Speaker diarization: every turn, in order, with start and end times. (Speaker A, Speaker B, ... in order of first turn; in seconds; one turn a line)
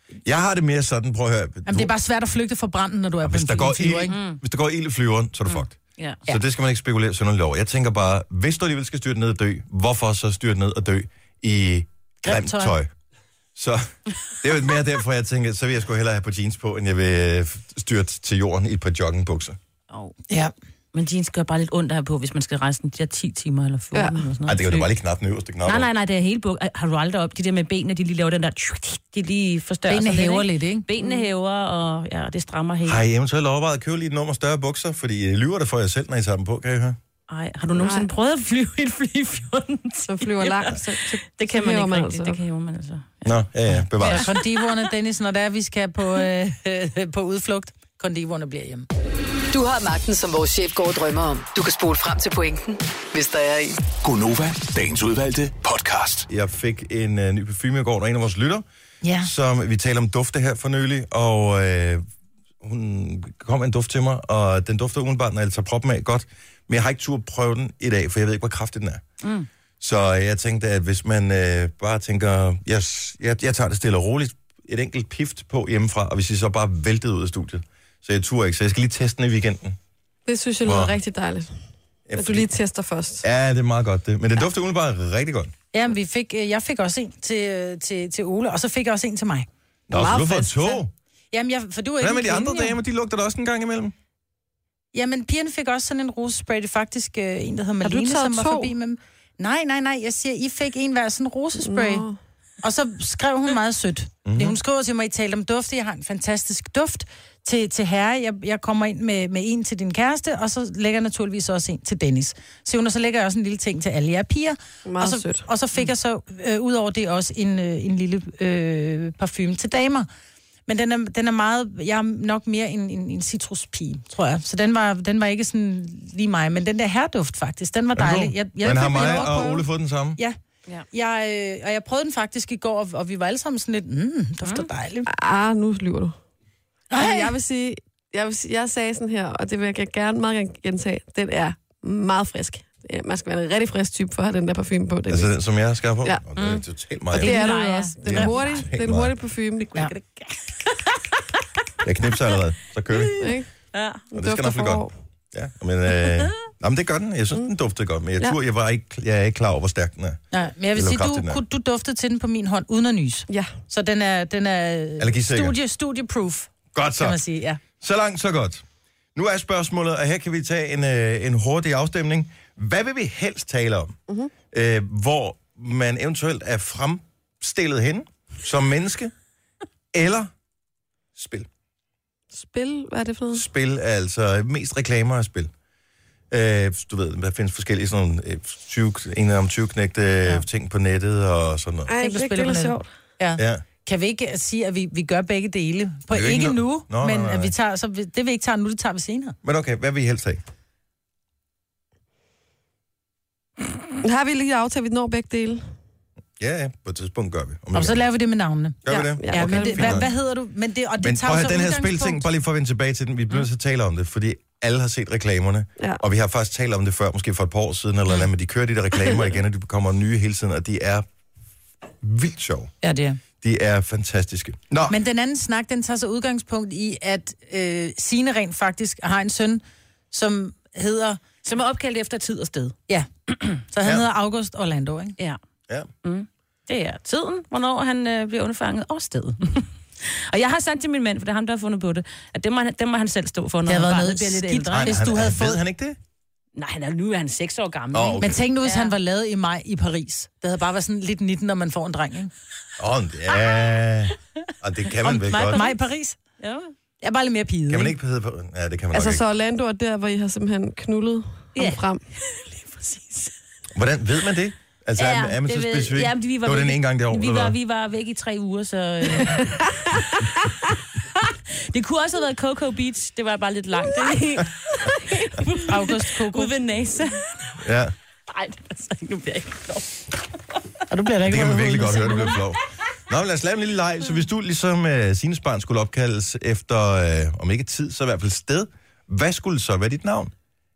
Speaker A: 0.2-1.9
Speaker B: 1.7-4.2
Speaker A: 3.2-12.9
Speaker C: 4.1-4.4
Speaker C: 5.5-6.2
Speaker B: 12.2-12.8
Speaker A: 13.6-13.9
Speaker A: 14.4-19.6
Speaker C: 20.9-24.9
Speaker D: 23.9-24.2
Speaker A: 24.4-25.9
Speaker C: 25.6-33.0
Speaker B: 29.9-30.9
Speaker D: 31.0-31.3
Speaker A: 32.8-37.0
Speaker C: 37.3-43.3
Speaker D: 37.7-38.1
Speaker D: 40.1-42.4
Speaker A: 43.2-44.3
Speaker C: 44.0-44.7
Speaker B: 44.0-48.9
Speaker E: 49.5-53.8
Speaker F: 54.0-56.3
Speaker A: 56.3-58.6
Speaker B: 59.0-59.3
Speaker A: 59.2-62.0
Speaker A: 62.6-69.0
Speaker C: 69.2-69.5
Speaker A: 69.8-79.8
Speaker D: 80.3-81.5
Speaker A: 80.6-81.0
Speaker A: 82.1-82.5
Speaker D: 82.2-83.2
Speaker A: 83.2-85.5
Speaker B: 85.7-89.5
Speaker A: 89.9-90.9
Speaker D: 89.9-90.8
Speaker B: 91.3-92.8
Speaker A: 92.0-93.9
Speaker B: 94.9-102.1
Speaker D: 97.8-98.7
Speaker D: 101.6-102.2
Speaker B: 102.6-120.1
Speaker A: 104.2-104.6
Speaker D: 114.9-115.5
Speaker B: 120.7-129.6
Speaker A: 128.0-130.2
Speaker D: 128.9-129.6
Speaker B: 130.9-135.1
Speaker D: 135.1-136.2
Speaker B: 136.9-137.3
Speaker D: 136.9-145.3
Speaker A: 145.1-147.5
Speaker C: 146.4-146.6
Speaker D: 147.1-149.7
Speaker C: 147.2-148.7
Speaker A: 148.0-149.1
Speaker C: 149.6-150.9
Speaker A: 151.8-153.3
Speaker D: 153.2-153.5
Speaker C: 153.7-154.0
Speaker D: 154.1-154.9
Speaker A: 154.1-160.2
Speaker B: 160.3-167.6
Speaker A: 160.7-161.4
Speaker A: 165.0-165.6
Speaker A: 166.7-167.2
Speaker A: 167.8-168.6
Speaker A: 169.2-174.0
Speaker A: 174.5-179.1
Speaker A: 179.9-180.3
Speaker A: 181.2-181.5
Speaker D: 182.3-183.4
Speaker A: 183.3-185.5
Speaker A: 186.3-191.9
Speaker D: 191.9-192.9
Speaker B: 192.0-199.4
Speaker A: 193.4-193.6
Speaker A: 196.1-197.5
Speaker A: 199.4-200.4
Speaker D: 204.0-205.6
Speaker A: 206.4-208.0
Speaker B: 207.7-212.2
Speaker A: 208.8-210.1
Speaker D: 208.9-210.1
Speaker A: 211.0-221.1
Speaker A: 222.0-222.7
Speaker B: 222.8-223.2
Speaker A: 223.4-225.0
Speaker B: 224.9-231.4
Speaker C: 231.4-232.8
Speaker B: 233.7-235.2
Speaker C: 236.0-245.0
Speaker B: 243.7-245.6
Speaker A: 244.7-246.0
Speaker C: 246.6-248.9
Speaker A: 247.9-248.4
Speaker B: 248.2-252.3
Speaker A: 252.8-255.7
Speaker B: 255.0-256.2
Speaker C: 256.4-256.7
Speaker B: 257.0-257.9
Speaker A: 257.7-259.2
Speaker D: 258.9-262.0
Speaker C: 261.6-263.3
Speaker A: 263.8-267.6
Speaker C: 265.0-269.8
Speaker C: 271.7-277.6
Speaker D: 273.9-275.4
Speaker B: 275.7-276.5
Speaker A: 277.6-277.9
Speaker C: 278.3-280.1
Speaker B: 280.9-282.4
Speaker A: 281.2-290.3